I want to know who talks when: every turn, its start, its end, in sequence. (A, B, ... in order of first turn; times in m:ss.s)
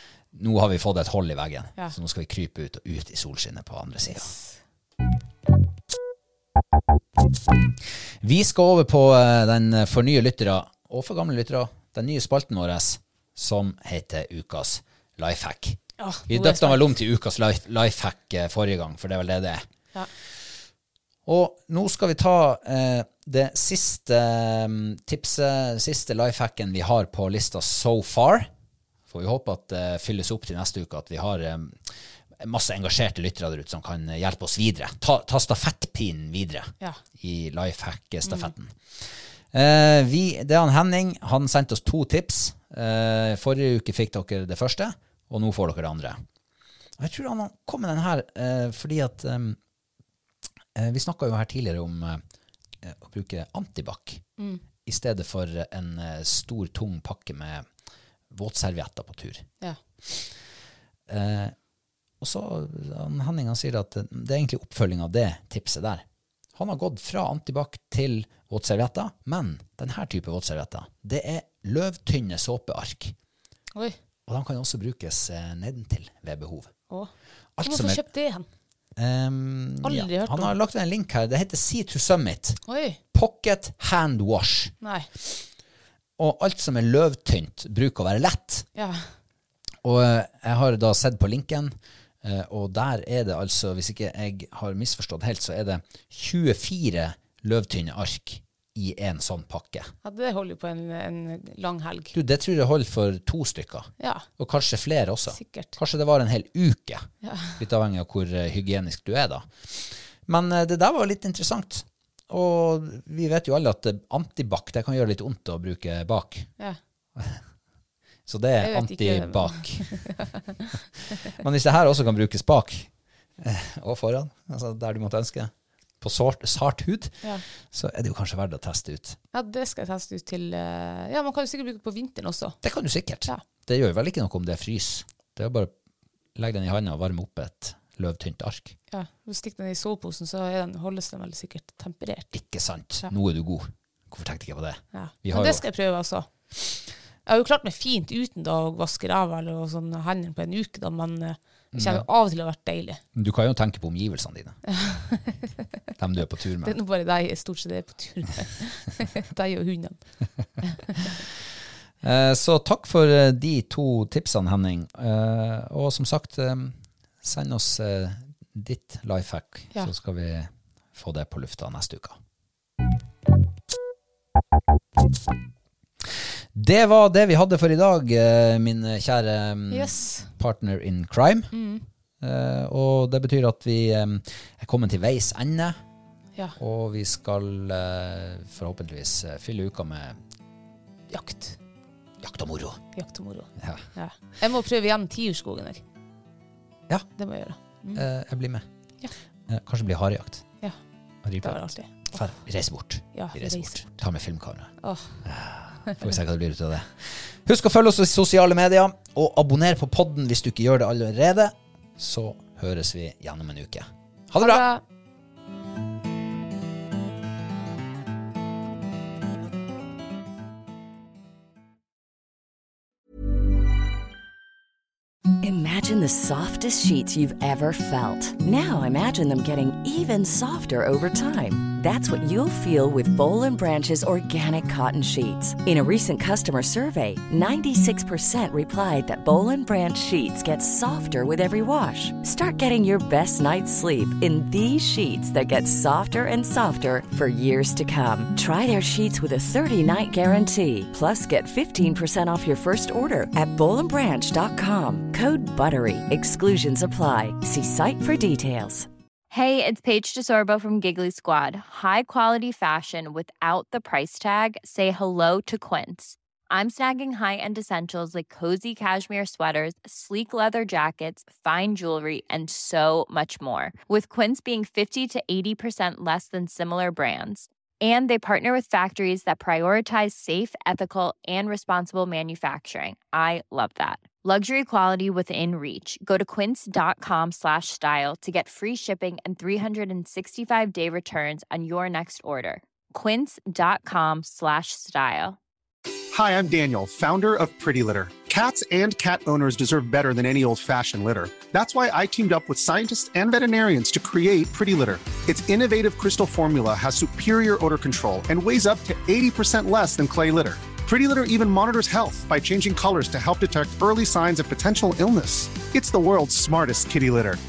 0:00.3-0:04.3 A
0:04.1-0:04.6 B
0:08.2-0:19.6 A
0:16.0-0:16.8 B
0:21.2-0:28.5 A
0:29.1-0:31.8 A
0:32.4-0:46.2 A
0:38.2-0:38.5 B
0:47.0-0:49.6 A
0:50.7-0:52.2 A
0:52.8-0:54.2 A
0:54.8-0:57.7 A
0:58.3-0:59.4 A
1:01.1-1:01.5 A
1:02.2-1:06.0 A
1:06.6-1:13.1 A
1:14.3-1:16.7 A
1:17.6-1:18.0 A
1:17.6-1:18.5 B
1:19.0-1:22.6 A
1:19.8-1:20.5 B
1:22.7-1:23.0 B
1:23.1-1:24.7 A
1:24.8-1:25.1 B
1:26.2-1:28.7 A
1:28.8-1:29.0 B
1:29.8-1:39.9 A
1:40.0-1:42.1 B
1:42.1-1:56.5 A
1:44.0-1:44.2 B
1:45.3-1:45.8 B
1:47.2-1:47.6 B
1:58.3-2:00.1 A
1:58.6-2:00.6 B
2:01.2-2:09.2 A
2:09.3-2:12.6 B
2:12.6-2:15.7 A
2:16.4-2:18.8 A
2:18.9-2:22.3 B
2:22.3-2:25.6 A
2:24.9-2:26.3 B
2:27.2-2:33.0 B
2:31.7-2:32.0 A
2:33.1-2:34.6 A
2:34.7-2:35.5 B
2:36.0-2:36.8 A
2:36.6-2:40.0 B
2:40.6-2:41.0 B
2:42.0-2:52.2 A
2:56.5-3:01.5 A
2:59.7-3:00.3 B
3:01.5-3:01.8 B
3:02.2-3:05.8 A
3:06.6-3:10.2 A
3:11.1-3:11.6 B
3:12.2-3:12.8 A
3:12.9-3:15.8 B
3:13.6-3:13.9 A
3:17.2-3:18.0 B
3:17.9-3:18.6 A
3:19.5-3:20.4 A
3:21.2-3:24.7 A
3:21.4-3:22.1 B
3:23.1-3:23.8 B
3:24.8-3:25.2 B
3:25.2-3:34.6 A
3:34.4-3:34.8 B
3:45.4-4:18.9 C
4:19.3-4:55.4 D
4:56.1-5:17.4 E